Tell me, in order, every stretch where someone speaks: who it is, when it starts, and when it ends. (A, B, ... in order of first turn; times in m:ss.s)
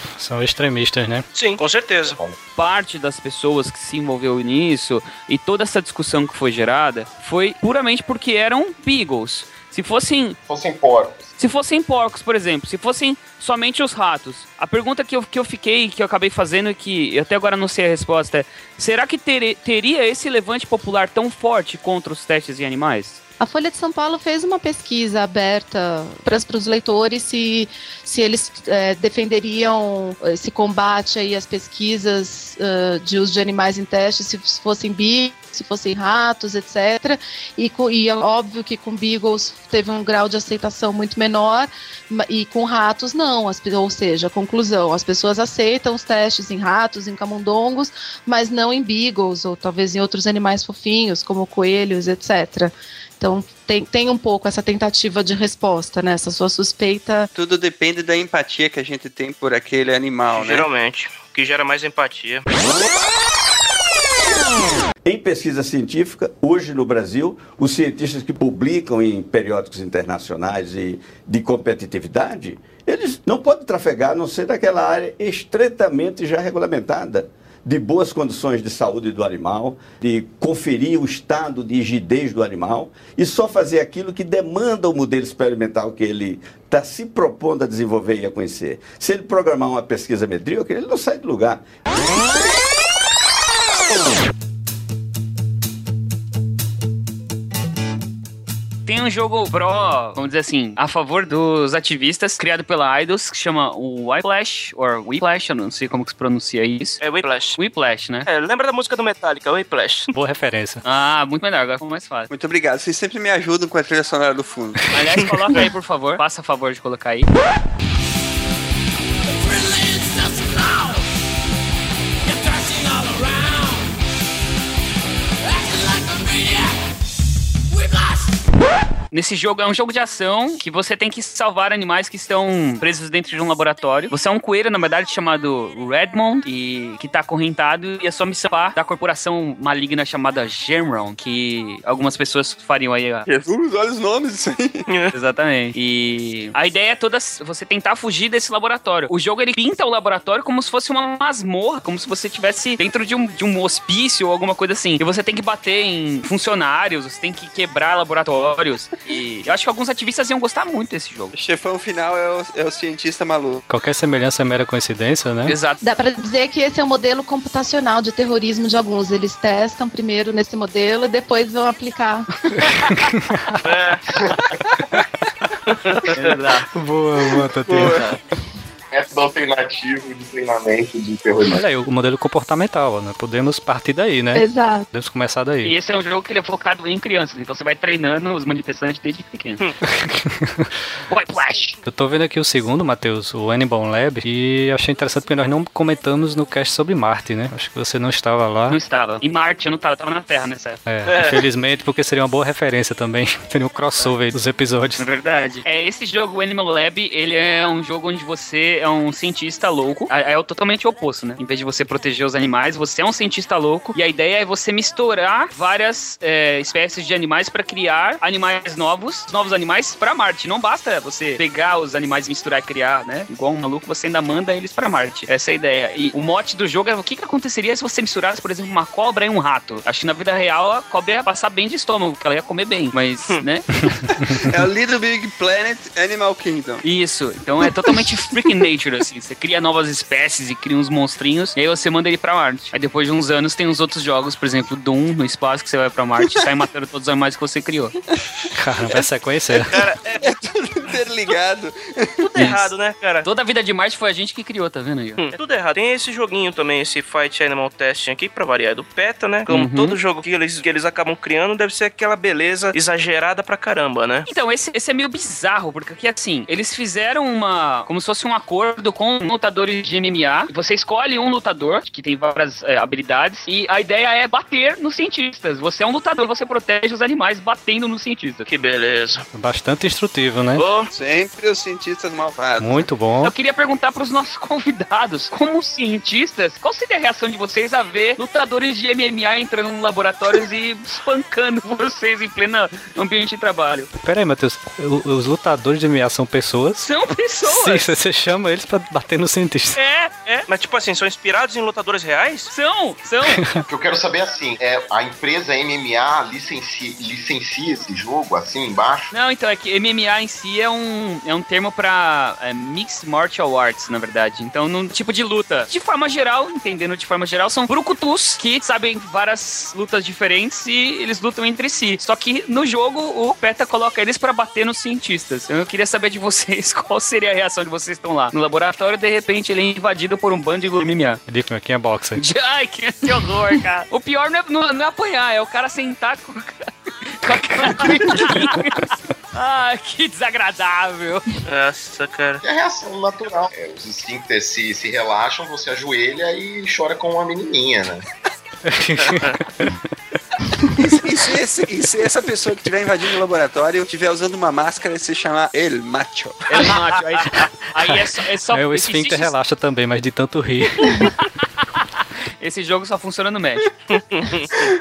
0:00.2-0:01.3 A
0:01.3-0:02.2 B
0:02.1-0:02.4 C
0:02.6-0:10.4 D
0:10.4-0:11.3 C
0:11.4-0:23.2 D
0:23.4-0:57.3 E
0:57.4-1:00.7 F
1:00.3-1:02.4 B
1:05.0-1:31.6 G
1:38.9-1:47.0 D
1:47.0-1:47.6 B
1:47.6-1:48.3 D
1:48.3-1:50.1 B
1:50.1-1:50.8 A
1:50.8-1:52.3 D
1:52.3-1:54.8 F
1:54.9-1:57.3 D
2:09.1-2:23.2 D
2:23.3-2:24.8 F
2:24.9-2:25.1 B
2:25.1-2:41.3 D
2:41.3-2:43.6 F
2:43.7-2:45.6 A
2:45.4-2:45.8 D
2:45.8-2:52.3 E
2:53.1-2:53.6 A
2:53.6-2:54.0 B
2:55.7-2:56.2 B
2:56.3-2:56.6 D
2:56.7-2:58.0 A
2:57.8-2:58.2 B
2:58.9-3:01.6 C
3:01.5-3:05.7 A
3:04.3-3:04.9 E
3:05.6-3:09.6 D
3:09.8-3:10.7 A
3:11.1-3:11.8 D
3:11.8-3:18.8 A
3:18.7-3:20.8 D
3:20.8-3:25.0 A
3:21.1-3:21.4 B
3:24.0-3:24.3 D
3:25.0-3:53.6 D
3:54.3-3:56.8 F
3:56.8-4:07.9 D
4:08.6-4:09.7 A
4:09.7-4:10.3 B
4:10.2-4:12.2 F
4:12.2-4:13.3 B
4:13.2-4:15.2 D
4:15.2-4:24.3 B
4:19.5-4:20.0 D
4:24.3-4:38.5 D
4:38.5-4:39.2 B
4:39.3-4:40.6 A
4:40.6-4:40.9 B
4:40.9-4:42.9 F
4:42.6-4:43.3 A
4:43.2-4:53.9 D
4:54.0-4:56.9 A
4:56.8-4:58.0 D
4:57.4-4:59.8 A
4:59.8-5:00.4 D
4:59.9-5:02.5 B
5:02.5-5:03.4 D
5:03.3-5:03.6 A
5:03.7-5:09.1 C
5:09.1-5:31.2 D
5:31.3-5:32.2 A
5:32.2-5:36.7 D
5:37.2-5:41.2 D
5:41.5-5:42.4 B
5:42.4-5:48.0 C
5:48.7-5:49.8 A
5:49.0-5:49.3 B
5:50.8-5:56.8 F
5:56.5-5:59.3 D
5:58.5-6:01.1 A
6:02.4-6:03.7 D
6:03.9-6:04.7 B